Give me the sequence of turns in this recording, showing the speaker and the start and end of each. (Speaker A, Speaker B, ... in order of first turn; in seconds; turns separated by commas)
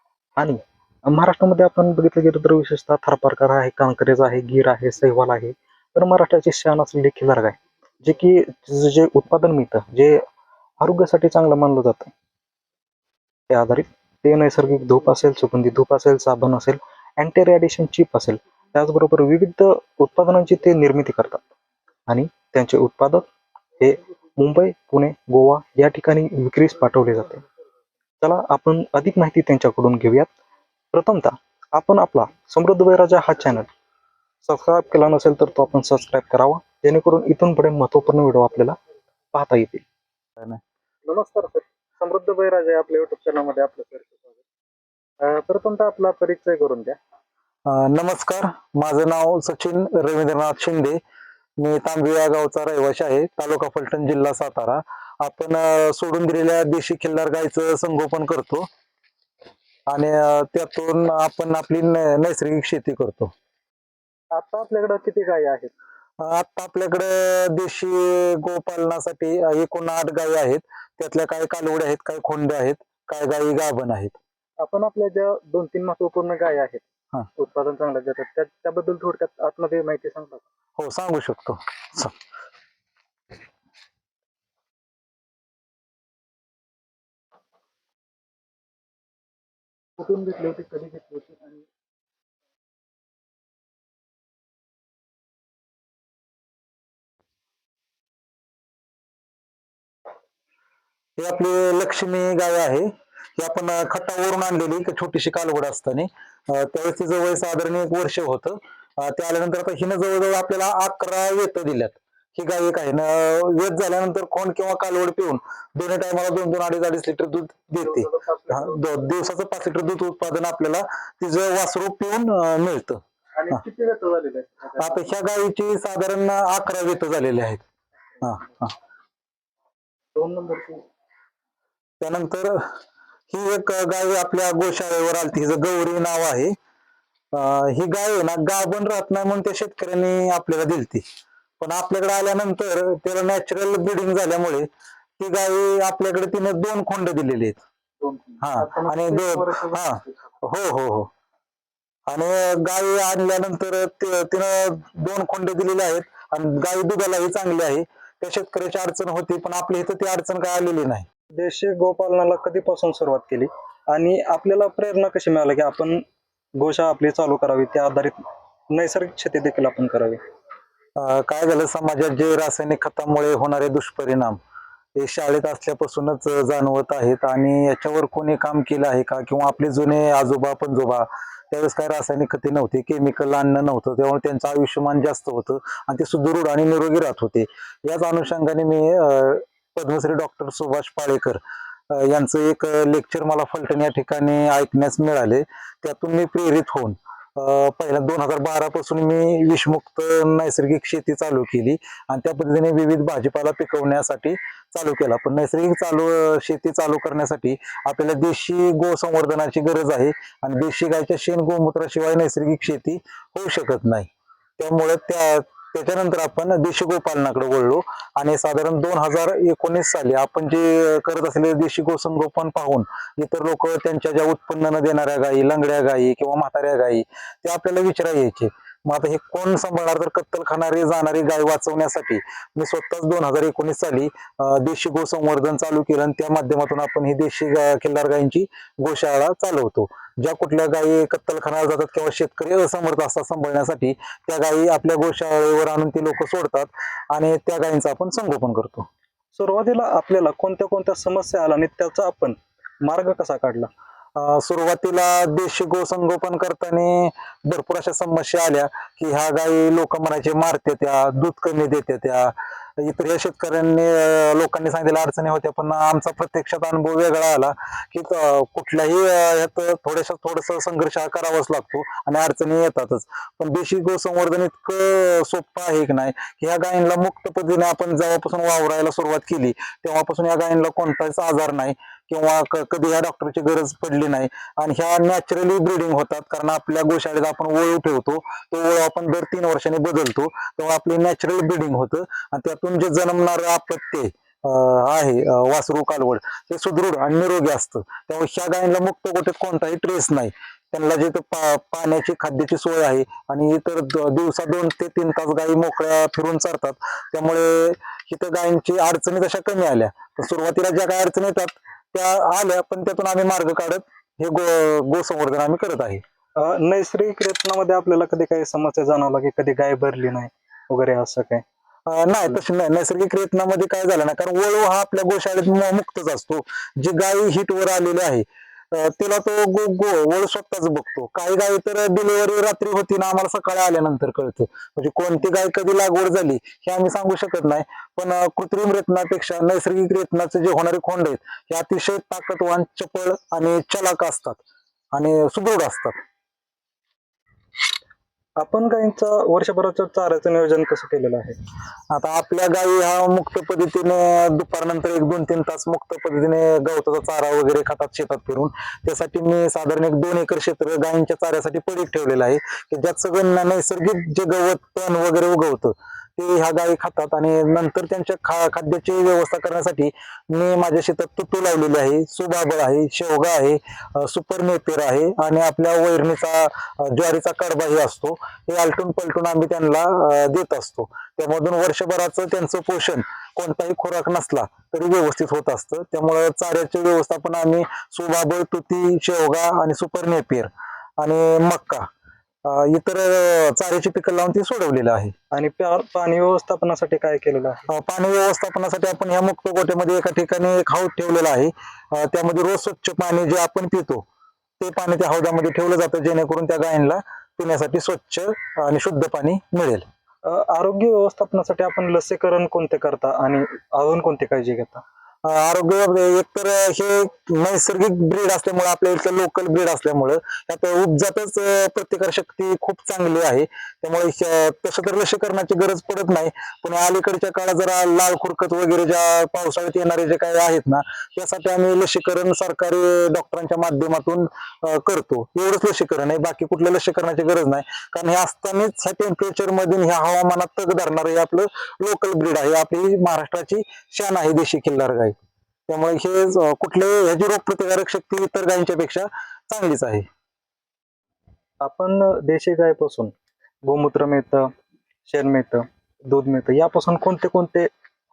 Speaker A: 0.4-10.2, Speaker A: 10.8-12.1, Speaker A: 13.5-21.4, Speaker A: 22.1-23.2, Speaker A: 23.8-27.4, Speaker A: 28.2-30.3, Speaker A: 30.9-33.7, Speaker A: 34.4-38.8, Speaker A: 39.3-39.9, Speaker A: 41.0-44.3, Speaker A: 45.2-47.0, Speaker B: 47.6-51.0, Speaker B: 51.6-58.7, Speaker B: 59.9-63.3, Speaker A: 64.3-65.7, Speaker B: 66.2-74.2, Speaker A: 74.6-76.8, Speaker A: 77.3-80.4, Speaker B: 80.8-82.1, Speaker A: 90.0-91.6, Speaker B: 101.2-123.6, Speaker A: 118.0-118.8, Speaker A: 123.4-125.0, Speaker B: 124.8-127.6, Speaker B: 128.2-128.7, Speaker A: 130.1-130.8, Speaker B: 132.0-132.7, Speaker B: 133.3-136.6, Speaker B: 137.3-141.0, Speaker B: 141.6-144.7, Speaker B: 145.2-147.6, Speaker A: 148.0-150.0, Speaker B: 148.4-151.1, Speaker B: 152.1-161.1, Speaker A: 161.3-166.0, Speaker A: 166.6-168.2, Speaker A: 168.7-170.2, Speaker B: 170.9-174.4, Speaker B: 174.9-214.1, Speaker B: 214.6-248.9, Speaker A: 249.3-253.7, Speaker B: 254.1-316.0, Speaker A: 316.4-321.4, Speaker B: 321.9-344.4, Speaker B: 344.9-346.0, Speaker A: 348.4-351.4, Speaker B: 351.9-391.9, Speaker B: 392.4-395.1, Speaker A: 395.3-397.6, Speaker B: 397.7-404.0, Speaker B: 404.6-409.9, Speaker A: 410.2-414.8, Speaker B: 415.2-445.1, Speaker B: 445.7-450.1, Speaker A: 451.6-454.5, Speaker A: 455.1-457.7